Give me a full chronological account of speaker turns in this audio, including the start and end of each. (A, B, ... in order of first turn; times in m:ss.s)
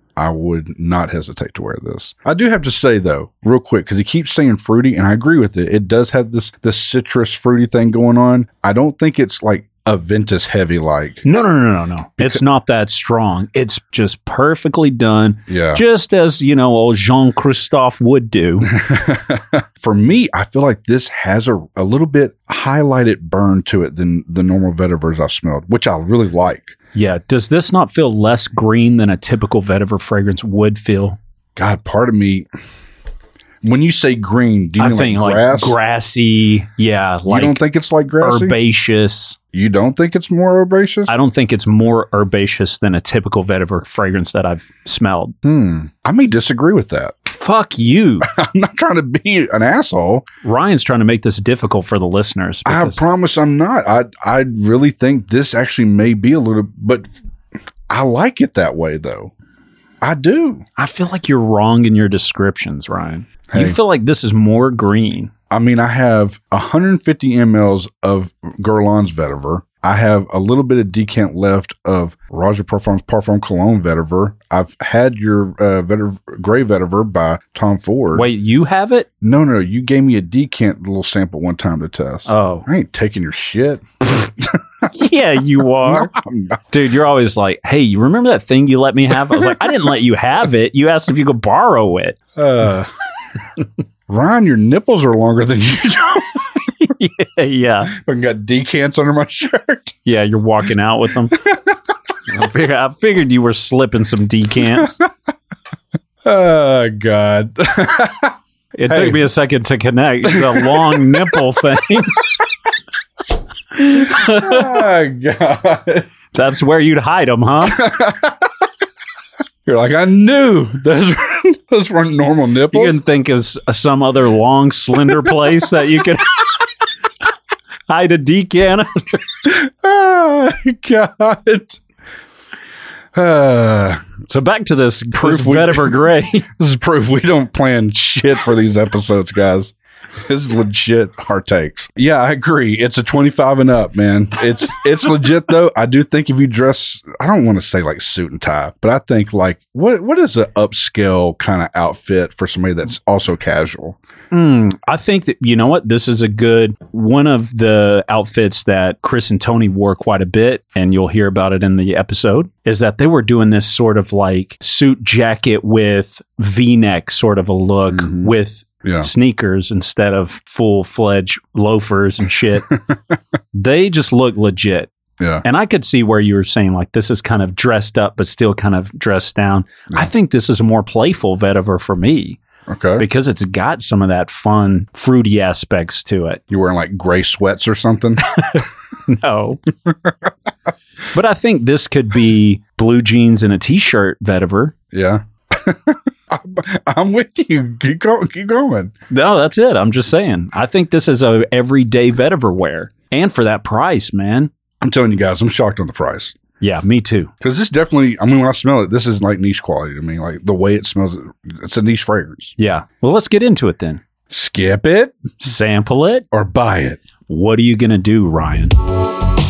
0:00.2-0:11.2 A
0:11.2-0:18.7 B
0:15.5-0:15.8 A
0:18.7-0:26.8 A
0:26.9-0:31.2 B
0:31.6-0:32.5 A
0:33.6-0:35.8 A
0:34.8-0:37.6 B
0:37.3-0:38.6 A
0:38.2-0:39.4 B
0:39.5-0:41.1 A
0:41.1-0:45.4 B
0:45.4-0:47.1 A
0:47.3-0:48.3 B
0:48.2-0:50.2 A
0:50.4-0:53.0 B
0:52.7-0:57.1 A
0:57.9-0:59.3 A
1:00.0-1:00.6 A
1:00.8-1:05.3 B
1:03.5-1:03.8 A
1:05.5-1:18.3 A
1:18.1-1:19.1 B
1:19.2-1:24.6 A
1:22.3-1:22.7 B
1:24.9-1:26.1 B
1:25.8-1:26.6 A
1:26.7-1:32.2 B
1:29.3-1:29.7 A
1:32.4-1:32.9 A
1:34.1-1:36.7 A
1:36.8-1:37.9 B
1:37.9-1:40.0 A
1:40.0-1:41.4 B
1:41.4-1:41.8 A
1:42.3-1:45.0 B
1:46.2-1:48.4 A
1:48.8-1:52.3 B
1:48.9-1:49.3 A
1:50.2-1:51.4 A
1:53.8-1:54.8 B
1:53.8-1:56.1 A
1:56.3-1:57.8 B
1:57.6-1:58.5 A
1:59.7-2:03.0 A
2:02.7-2:06.6 B
2:05.1-2:05.6 A
2:07.9-2:09.3 B
2:09.4-2:11.8 A
2:13.2-2:14.2 A
2:14.3-2:16.5 B
2:15.1-2:19.7 A
2:20.2-2:34.0 A
2:34.3-2:52.7 B
2:47.9-2:49.1 A
2:53.5-2:54.9 B
2:55.2-2:55.4 A
2:55.4-3:02.4 B
3:02.7-3:03.1 A
3:03.0-3:06.4 B
3:06.5-3:08.2 A
3:08.4-3:09.6 B
3:09.8-3:10.3 A
3:11.1-3:14.8 B
3:14.9-3:18.9 A
3:19.1-3:24.5 B
3:24.8-3:26.4 A
3:26.6-3:27.3 B
3:27.4-3:32.5 A
3:32.6-3:34.0 B
3:34.3-3:35.2 A
3:35.4-3:36.3 B
3:36.3-3:37.0 A
3:37.3-3:38.7 B